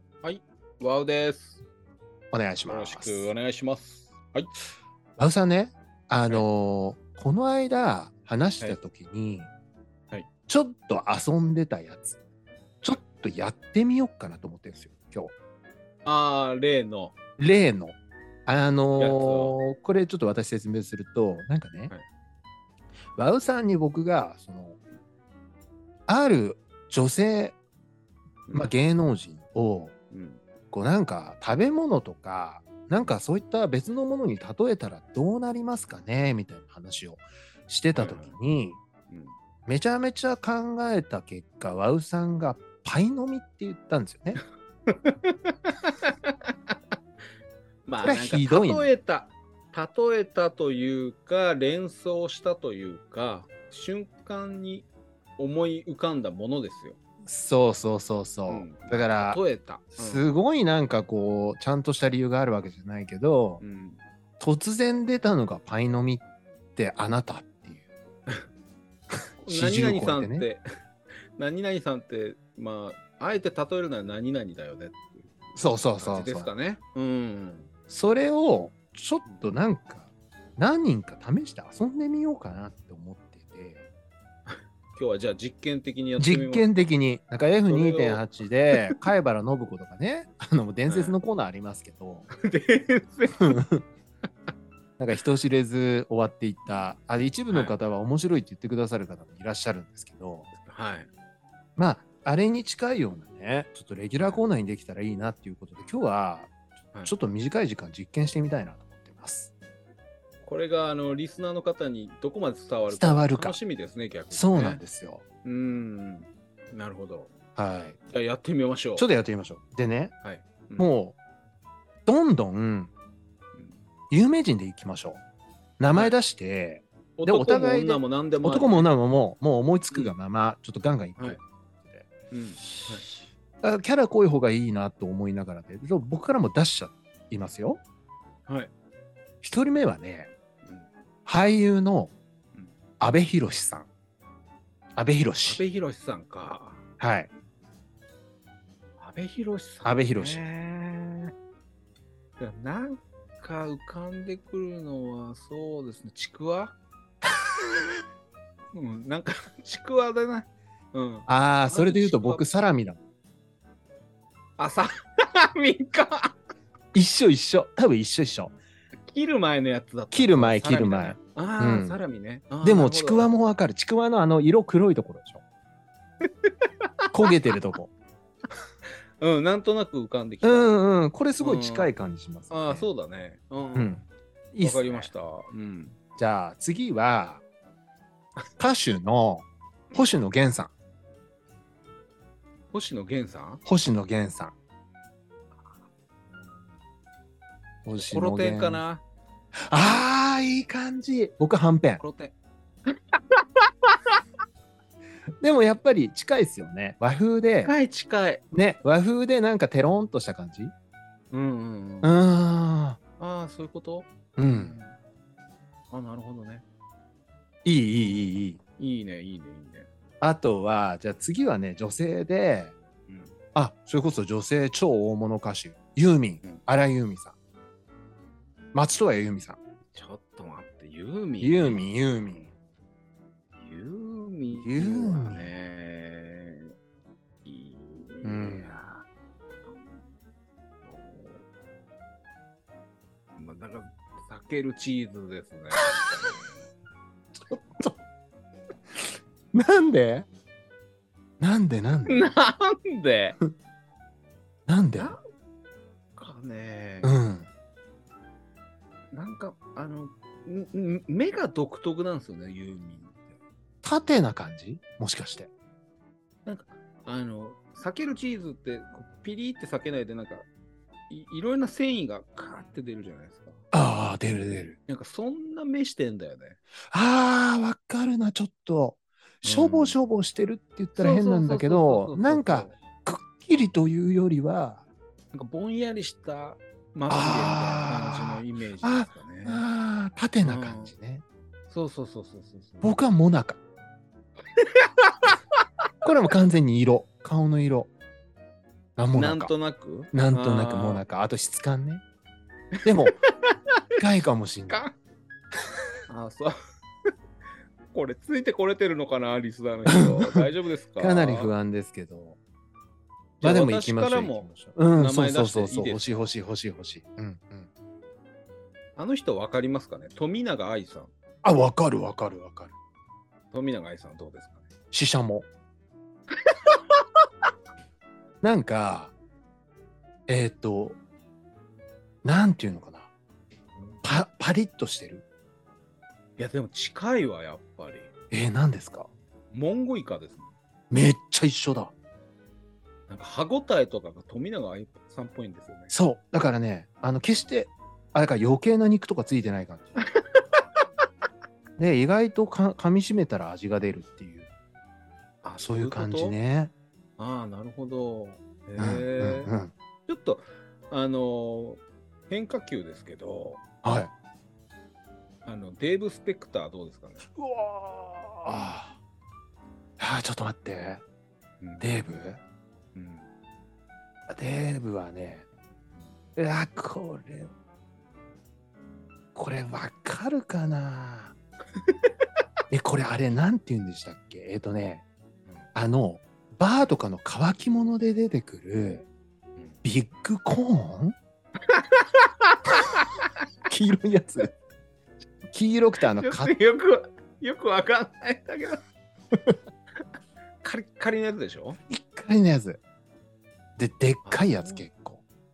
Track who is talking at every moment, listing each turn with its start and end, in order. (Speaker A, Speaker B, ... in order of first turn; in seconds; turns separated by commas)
Speaker A: 0.2-1.6, Speaker B: 2.3-3.3, Speaker A: 2.7-4.5, Speaker B: 5.2-9.5, Speaker B: 10.5-12.2, Speaker B: 12.8-15.3, Speaker A: 16.1-17.1, Speaker B: 17.4-21.9, Speaker A: 19.0-19.6, Speaker B: 23.2-24.8, Speaker B: 26.1-27.6, Speaker B: 28.5-29.9, Speaker A: 30.1-30.4, Speaker B: 30.7-38.8, Speaker A: 37.9-38.3, Speaker A: 39.1-39.4, Speaker B: 39.7-44.4, Speaker A: 44.9-46.1, Speaker A: 47.9-57.0, Speaker B: 48.0-48.9, Speaker B: 57.3-59.4, Speaker A: 58.5-60.3, Speaker B: 60.0-63.6, Speaker A: 63.6-64.0, Speaker B: 64.4-66.2, Speaker B: 66.8-67.9, Speaker A: 69.4-70.6, Speaker B: 69.4-70.5, Speaker A: 71.4-77.7, Speaker B: 75.5-76.5, Speaker B: 77.9-83.8, Speaker A: 79.2-79.5, Speaker A: 84.5-86.8, Speaker B: 86.2-92.3, Speaker A: 87.7-89.0, Speaker A: 90.9-91.2, Speaker A: 92.3-93.6, Speaker B: 93.4-93.8, Speaker B: 95.0-100.5, Speaker A: 97.5-97.8, Speaker A: 100.5-101.1, Speaker B: 101.8-106.5, Speaker A: 104.2-104.4, Speaker B: 107.0-109.5, Speaker A: 110.4-114.8, Speaker B: 112.9-113.6, Speaker B: 114.3-115.2, Speaker A: 115.4-117.3, Speaker B: 117.6-118.0, Speaker A: 118.1-119.1, Speaker B: 119.0-120.1, Speaker A: 120.2-120.9, Speaker B: 120.8-121.2, Speaker B: 122.1-122.9, Speaker A: 123.5-123.8, Speaker B: 124.1-125.2, Speaker B: 125.8-132.1, Speaker A: 127.2-128.9, Speaker A: 132.3-133.1, Speaker B: 133.6-137.8, Speaker B: 139.4-140.3, Speaker A: 140.6-140.9, Speaker B: 141.3-142.1, Speaker B: 143.0-143.9, Speaker B: 145.0-145.6, Speaker A: 145.4-146.8, Speaker B: 147.0-147.3, Speaker A: 149.0-151.3, Speaker B: 149.8-150.4, Speaker A: 152.4-156.8, Speaker A: 158.7-162.5, Speaker B: 161.3-163.0, Speaker A: 164.6-166.3, Speaker B: 166.9-168.6, Speaker A: 169.1-173.3, Speaker B: 170.1-172.0, Speaker B: 172.6-175.4, Speaker A: 176.2-176.5, Speaker B: 177.1-177.9, Speaker A: 179.2-180.7, Speaker B: 180.4-182.9, Speaker A: 181.4-181.9, Speaker A: 182.5-184.0, Speaker B: 183.8-185.1, Speaker A: 184.6-186.0, Speaker B: 186.2-187.4, Speaker B: 188.6-190.7, Speaker A: 192.7-193.6, Speaker B: 193.7-194.5, Speaker B: 197.9-198.8, Speaker A: 197.9-199.0, Speaker B: 199.7-202.0, Speaker A: 202.0-202.3, Speaker A: 202.9-204.2, Speaker B: 205.4-207.7, Speaker A: 207.6-208.4, Speaker B: 208.5-210.7, Speaker A: 211.3-212.2, Speaker B: 212.0-213.0, Speaker A: 213.2-215.0, Speaker B: 214.4-214.8, Speaker A: 215.9-216.6, Speaker B: 217.7-218.6, Speaker A: 218.0-219.9, Speaker B: 220.2-222.8, Speaker A: 223.1-223.4, Speaker B: 223.6-227.3, Speaker B: 228.7-229.6, Speaker A: 229.9-232.5, Speaker B: 231.4-232.5, Speaker A: 233.6-236.7, Speaker B: 234.6-235.5, Speaker A: 237.4-239.1, Speaker B: 238.2-238.8, Speaker A: 239.7-240.0, Speaker A: 240.8-241.4, Speaker A: 243.4-246.6, Speaker A: 247.5-247.9, Speaker B: 249.5-250.3, Speaker B: 251.4-252.3, Speaker A: 252.1-253.4, Speaker B: 254.7-255.2, Speaker A: 256.2-257.2, Speaker B: 257.0-257.5, Speaker A: 259.1-263.4, Speaker B: 263.8-265.5, Speaker A: 266.5-270.5, Speaker A: 271.1-273.6, Speaker B: 273.7-274.8, Speaker A: 274.9-276.6, Speaker B: 276.9-284.8, Speaker A: 279.4-280.0, Speaker A: 281.0-282.8, Speaker A: 285.3-289.6, Speaker B: 287.1-291.2, Speaker A: 290.4-290.9, Speaker A: 291.7-293.0, Speaker B: 292.8-293.6, Speaker A: 294.6-295.3, Speaker B: 296.0-297.9, Speaker B: 299.0-299.5, Speaker A: 299.1-301.0, Speaker B: 300.1-302.0, Speaker B: 302.9-303.2, Speaker A: 302.9-303.5, Speaker B: 304.0-304.9, Speaker A: 304.7-304.9, Speaker A: 306.1-306.5, Speaker A: 307.9-311.5, Speaker B: 309.9-310.4, Speaker B: 311.0-312.4, Speaker B: 313.4-317.7, Speaker A: 313.4-316.2, Speaker A: 319.0-321.1, Speaker B: 321.4-322.7, Speaker A: 323.5-324.7, Speaker B: 324.9-325.5, Speaker B: 328.4-329.1, Speaker B: 330.3-331.0, Speaker B: 332.2-333.1, Speaker B: 334.0-335.2, Speaker A: 336.4-338.1, Speaker B: 338.3-339.1, Speaker A: 339.5-340.5, Speaker B: 340.9-341.9, Speaker A: 343.1-345.9, Speaker B: 345.9-350.0, Speaker A: 350.0-350.6, Speaker B: 351.8-354.5, Speaker A: 355.4-356.4, Speaker B: 355.6-356.7, Speaker A: 357.2-359.5, Speaker B: 358.8-359.7, Speaker A: 360.1-363.6, Speaker B: 363.8-364.1, Speaker A: 365.4-367.3, Speaker B: 367.4-368.9, Speaker A: 368.5-368.8, Speaker B: 370.0-371.0, Speaker A: 371.6-372.2, Speaker B: 371.8-372.4, Speaker A: 372.9-373.3, Speaker B: 374.3-375.5, Speaker B: 376.4-377.5, Speaker B: 379.4-381.4, Speaker A: 381.9-382.1, Speaker B: 382.7-385.0, Speaker B: 385.8-389.1, Speaker B: 389.8-391.2, Speaker A: 391.7-393.1, Speaker B: 393.7-394.5, Speaker B: 395.5-396.5, Speaker A: 396.0-398.8, Speaker A: 400.6-401.8, Speaker B: 401.9-402.8, Speaker B: 403.8-405.2, Speaker A: 404.2-404.9